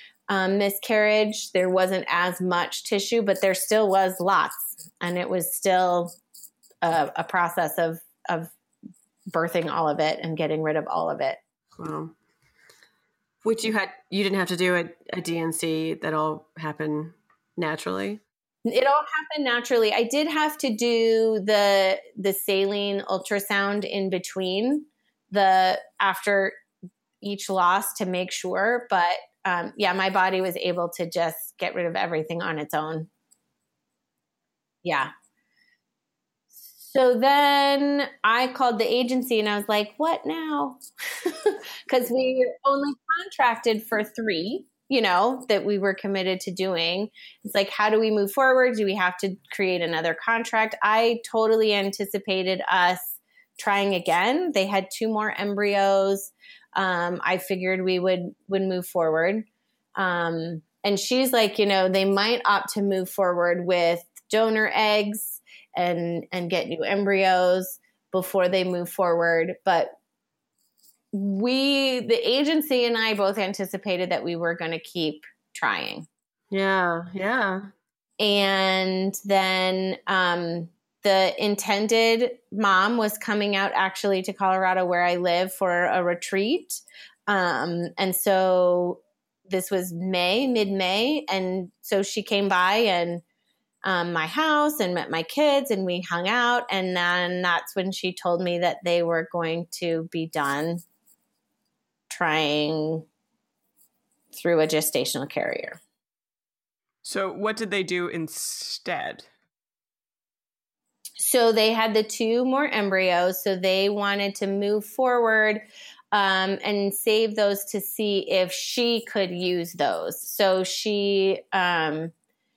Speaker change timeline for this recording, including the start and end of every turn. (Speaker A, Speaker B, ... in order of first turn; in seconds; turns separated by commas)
Speaker A: 0.3-6.1, Speaker A: 6.8-8.5, Speaker A: 9.3-11.4, Speaker B: 11.8-12.1, Speaker B: 13.4-18.2, Speaker A: 18.6-26.6, Speaker A: 27.2-33.1, Speaker A: 34.8-35.1, Speaker A: 36.5-69.9, Speaker A: 71.1-76.1, Speaker B: 76.5-77.7, Speaker A: 78.2-93.2, Speaker A: 93.8-100.8, Speaker A: 102.1-103.1, Speaker A: 104.3-105.8, Speaker C: 107.0-109.3, Speaker A: 111.2-122.1